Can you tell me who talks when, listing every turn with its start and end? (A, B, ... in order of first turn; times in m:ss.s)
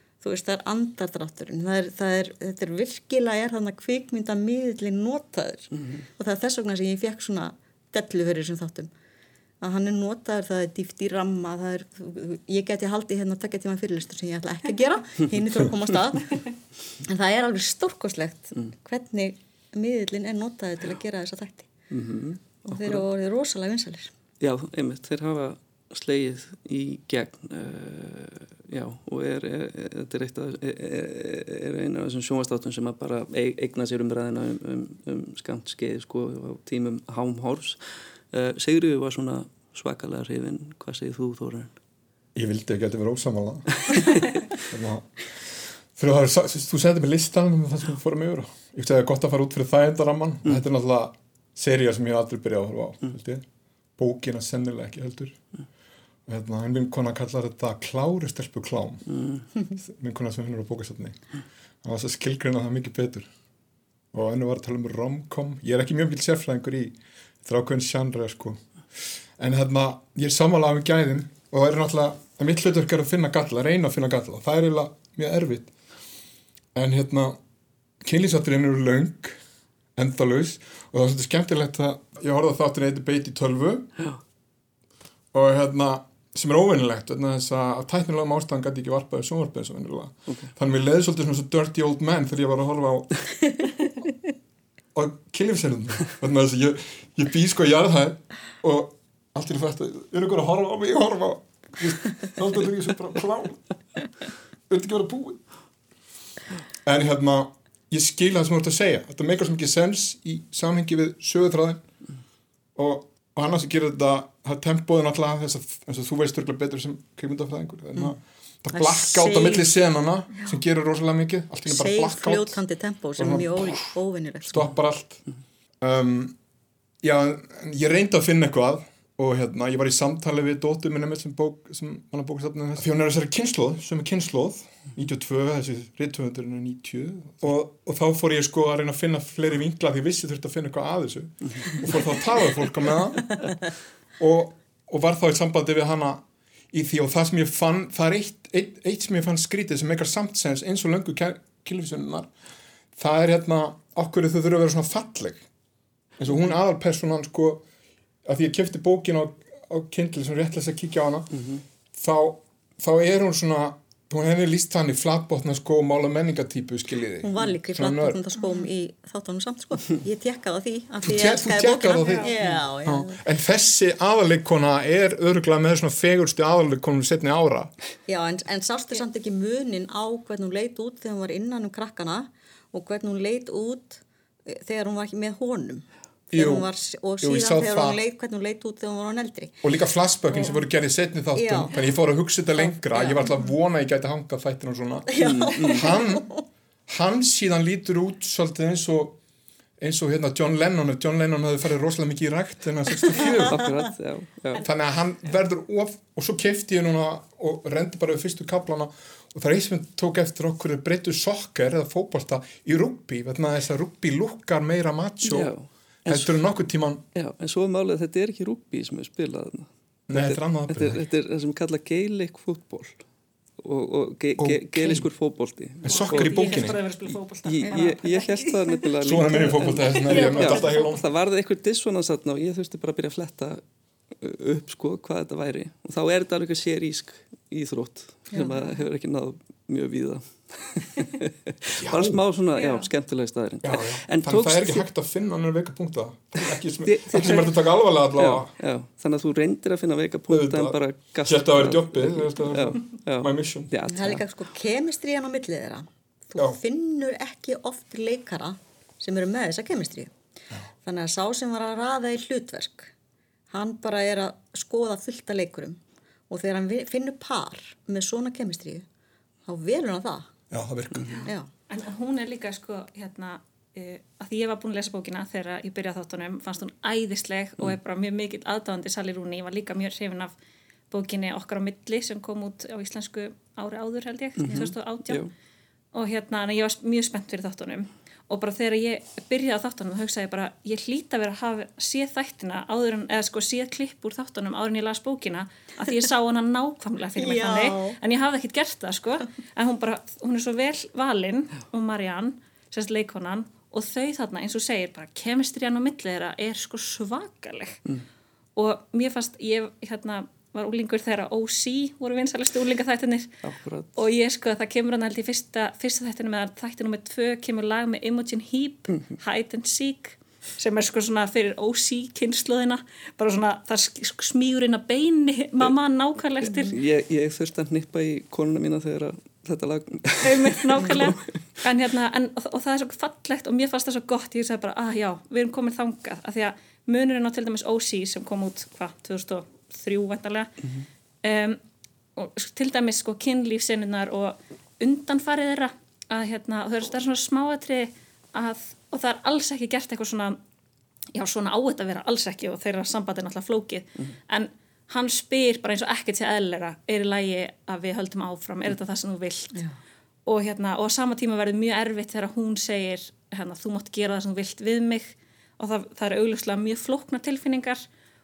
0:00.2-0:08.9 A
0:09.6-0:16.4 A
0:17.0-0:21.7 A
0:21.9-0:23.0 B
0:22.6-0:24.1 A
0:24.4-0:37.8 B
0:38.3-0:41.7 B
0:42.3-0:44.0 C
0:44.6-0:53.4 C
0:54.0-0:55.4 C
0:56.3-0:59.0 C
0:59.1-0:59.4 B
0:59.8-1:01.2 C
1:01.8-1:03.3 C
1:04.1-1:08.6 C
1:09.4-1:15.7 C
1:16.7-1:17.4 C
1:18.0-1:19.4 C
1:20.0-1:23.9 C
1:25.3-1:33.2 C
1:30.3-1:30.5 B
1:34.9-1:43.6 C
1:44.7-1:45.4 C
1:46.8-1:51.8 C
1:52.7-2:02.6 C
1:58.7-1:59.7 A
2:01.6-2:04.7 A
2:03.2-2:04.0 C
2:04.5-2:05.2 C
2:05.8-2:06.4 C
2:07.0-2:23.4 C
2:24.2-2:32.3 C
2:33.0-2:35.4 C
2:36.2-2:37.6 C
2:38.2-2:41.4 C
2:41.3-2:41.6 B
2:41.9-2:48.2 C
2:47.2-2:53.2 A
2:51.0-2:57.7 C
2:58.1-3:09.6 A
3:06.3-3:08.0 C
3:09.6-3:16.3 C
3:11.3-3:11.8 A
3:12.6-3:13.3 A
3:15.1-3:16.4 A
3:15.2-3:15.9 B
3:16.9-3:19.2 C
3:19.8-3:23.6 C
3:23.4-3:24.6 B
3:24.6-3:35.5 C
3:35.2-3:36.3 B
3:36.0-3:37.0 C
3:37.1-3:43.0 B
3:40.1-3:41.0 C
3:43.6-3:46.7 B
3:44.4-3:45.1 C
3:45.8-3:46.9 C
3:45.8-3:48.8 D
3:47.4-3:53.6 B
3:49.0-3:51.0 C
3:50.1-3:50.9 D
3:54.2-4:04.8 B
4:01.8-4:02.2 C
4:02.6-4:02.9 D
4:03.6-4:08.5 C
4:06.8-4:07.6 B
4:08.1-4:14.2 B
4:10.3-4:13.7 C
4:13.9-4:20.1 A
4:20.8-4:22.9 A
4:23.5-4:28.8 A
4:29.4-4:30.3 A
4:30.5-4:31.3 C
4:31.1-4:40.3 D
4:40.9-4:45.2 D
4:44.4-4:45.3 B
4:45.9-5:07.8 D
4:57.2-4:58.0 A
5:08.6-5:13.4 D
5:13.4-5:13.9 B
5:14.0-5:26.8 D
5:26.4-5:31.2 B
5:30.2-5:40.5 D
5:41.2-5:41.6 D
5:42.2-5:50.4 D
5:51.1-5:59.6 D
6:00.2-6:07.8 D